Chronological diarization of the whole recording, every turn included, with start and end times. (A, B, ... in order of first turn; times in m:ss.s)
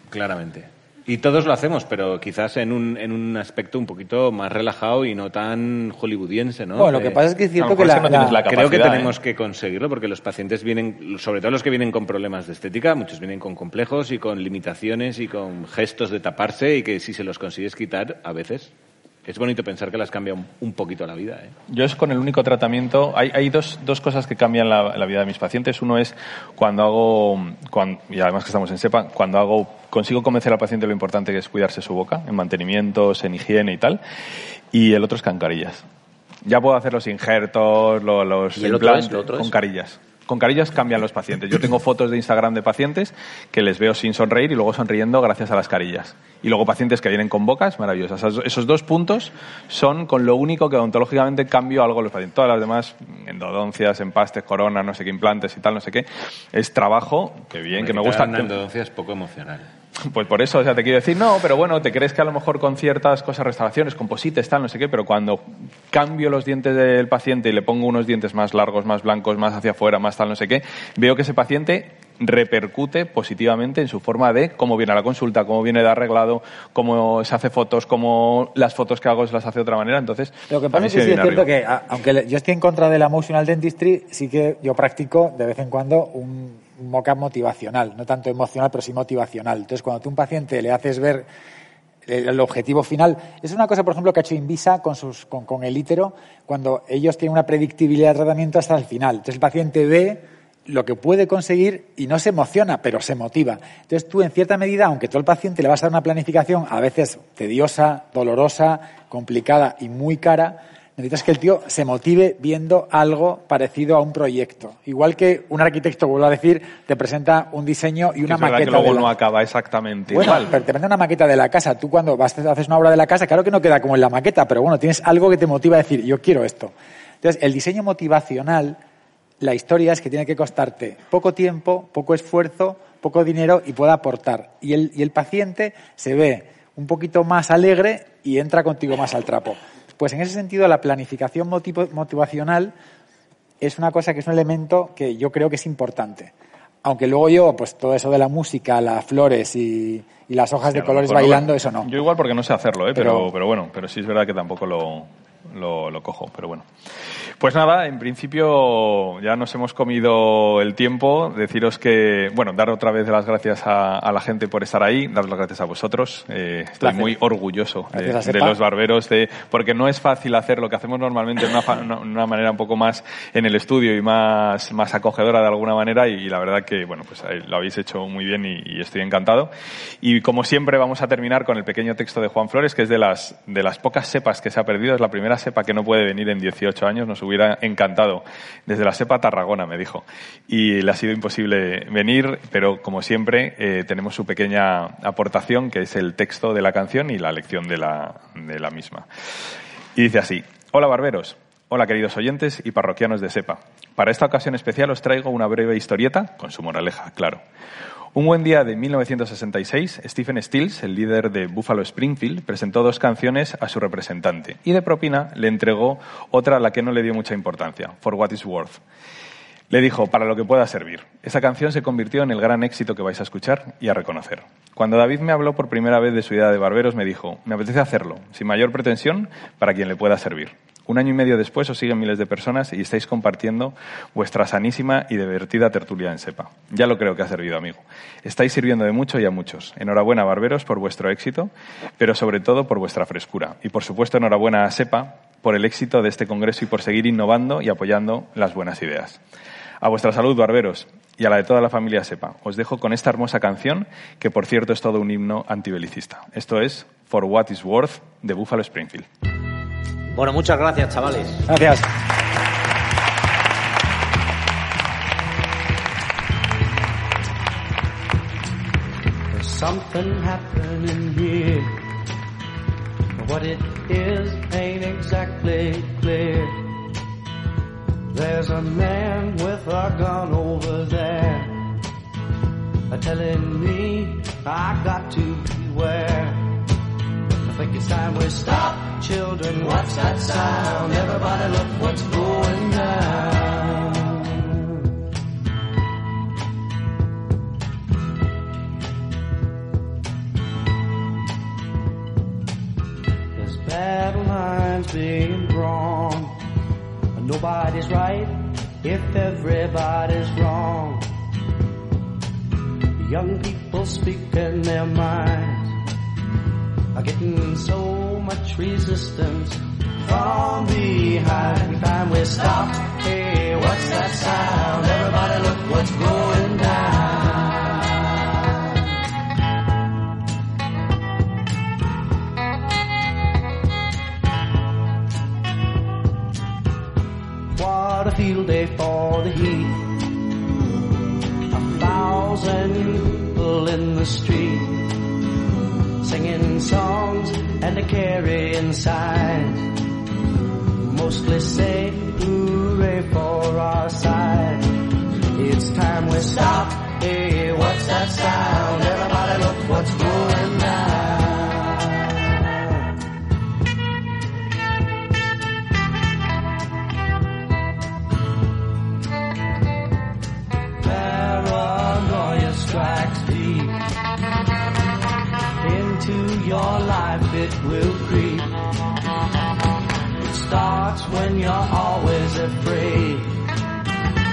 0:00.1-0:07.2 A
0:06.8-0:08.4 B
0:07.6-0:09.2 C
0:08.4-0:18.7 A
0:19.2-0:21.5 A
0:21.7-0:34.0 C
0:34.7-0:35.8 C
0:36.4-0:58.5 C
0:38.6-0:39.5 D
0:57.7-0:59.7 A
1:00.0-1:21.5 C
1:20.5-1:31.3 B
1:32.1-1:59.1 B
1:58.2-2:00.6 C
2:00.1-2:08.8 B
2:09.4-2:22.7 B
2:23.6-2:26.3 B
2:26.8-2:31.9 B
2:30.6-2:36.6 C
2:32.9-2:33.3 B
2:37.4-3:19.1 C
2:46.8-2:47.2 B
2:47.9-2:48.6 B
3:20.0-3:27.4 C
3:28.1-3:38.8 C
3:39.7-4:09.2 C
4:09.8-4:19.1 C
4:20.1-4:21.5 D
4:21.5-4:21.9 B
4:29.3-4:31.8 E
4:33.2-4:36.8 E
4:38.1-4:41.7 E
4:42.9-4:46.6 E
4:47.4-4:54.7 E
5:03.3-5:06.4 E
5:07.1-5:11.1 E
5:13.0-5:15.8 E
5:16.9-5:28.8 E
5:37.5-5:40.0 E
5:41.5-5:45.0 E
5:46.0-5:49.8 E
5:50.8-6:02.9 E
6:10.8-6:13.8 E
6:15.6-6:18.6 E
6:20.2-6:23.5 E